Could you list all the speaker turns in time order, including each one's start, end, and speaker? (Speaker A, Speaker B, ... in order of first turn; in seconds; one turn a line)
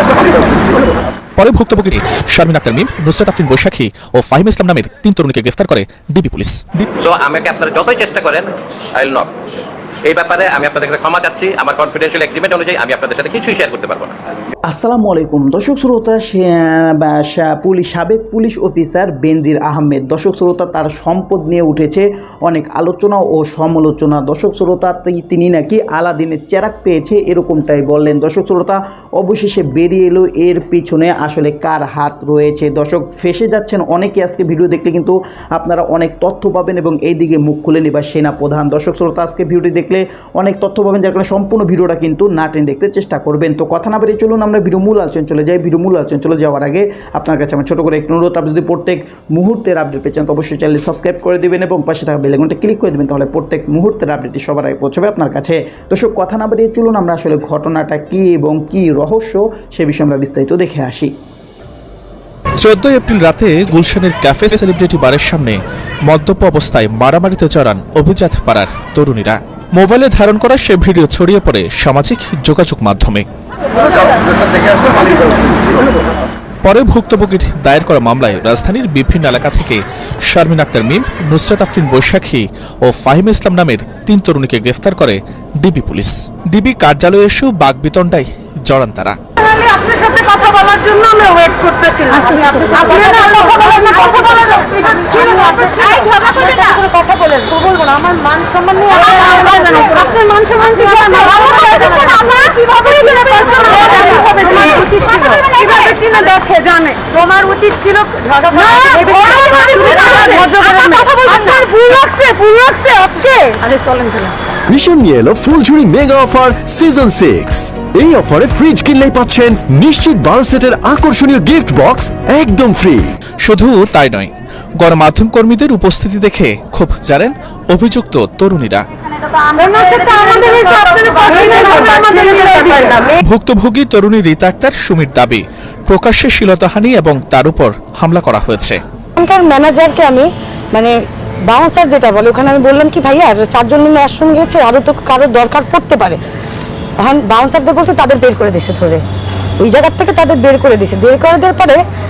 Speaker A: 1.4-6.8
Speaker B: 7.0-9.3
Speaker B: 10.1-14.1
Speaker C: 14.6-61.1
Speaker A: 62.6-73.2
Speaker A: 76.6-89.2
Speaker D: 89.4-96.6
Speaker E: 92.1-102.3
Speaker D: 98.3-114.3
Speaker E: 103.7-106.0
Speaker E: 108.4-111.6
Speaker F: 114.7-123.1
Speaker A: 123.4-128.8
Speaker E: 129.6-133.1
Speaker D: 129.7-133.0
Speaker A: 133.2-138.8
Speaker E: 139.2-140.9
Speaker E: 141.5-146.2
Speaker E: 147.0-149.0
Speaker E: 149.6-151.8